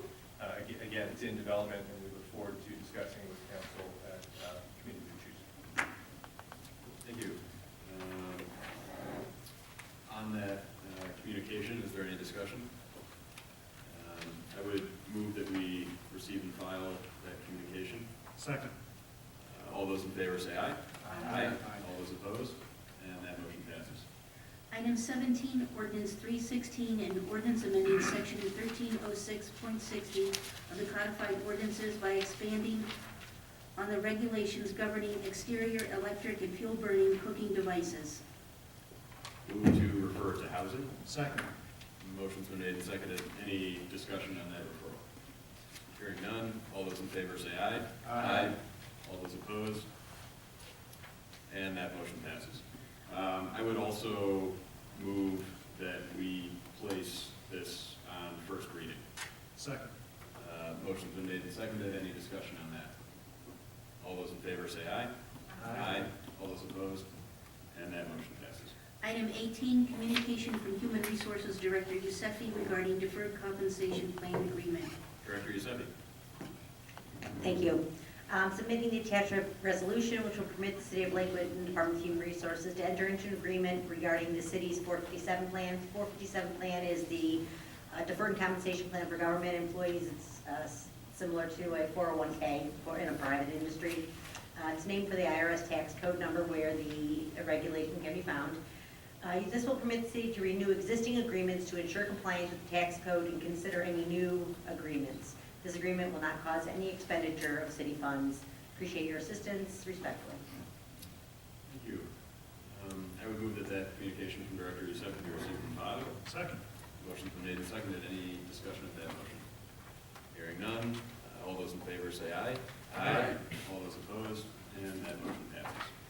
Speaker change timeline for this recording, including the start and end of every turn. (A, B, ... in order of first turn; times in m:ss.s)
0:00.4-0:05.5 A
0:07.0-0:08.5 B
0:10.0-0:12.7 B
0:13.8-0:18.1 B
0:18.4-0:18.7 C
0:19.4-0:24.0 B
0:21.0-0:21.8 C
0:24.7-0:32.9 D
0:33.7-0:38.2 D
0:39.4-0:40.9 B
0:41.0-0:41.4 C
0:42.0-0:45.0 B
0:45.9-0:49.8 B
0:48.1-0:48.5 C
0:51.5-0:59.0 B
0:59.6-0:59.9 C
1:00.4-1:02.9 B
1:04.0-1:05.1 B
1:05.6-1:06.0 C
1:05.6-1:07.1 B
1:07.7-1:08.7 B
1:09.0-1:14.9 D
1:15.2-1:15.9 B
1:17.4-1:38.6 E
1:39.2-1:50.4 E
1:51.7-1:52.1 B
1:52.6-1:56.2 B
1:56.2-1:56.6 C
1:57.0-1:59.4 B
2:00.3-2:05.9 B
2:03.0-2:03.4 C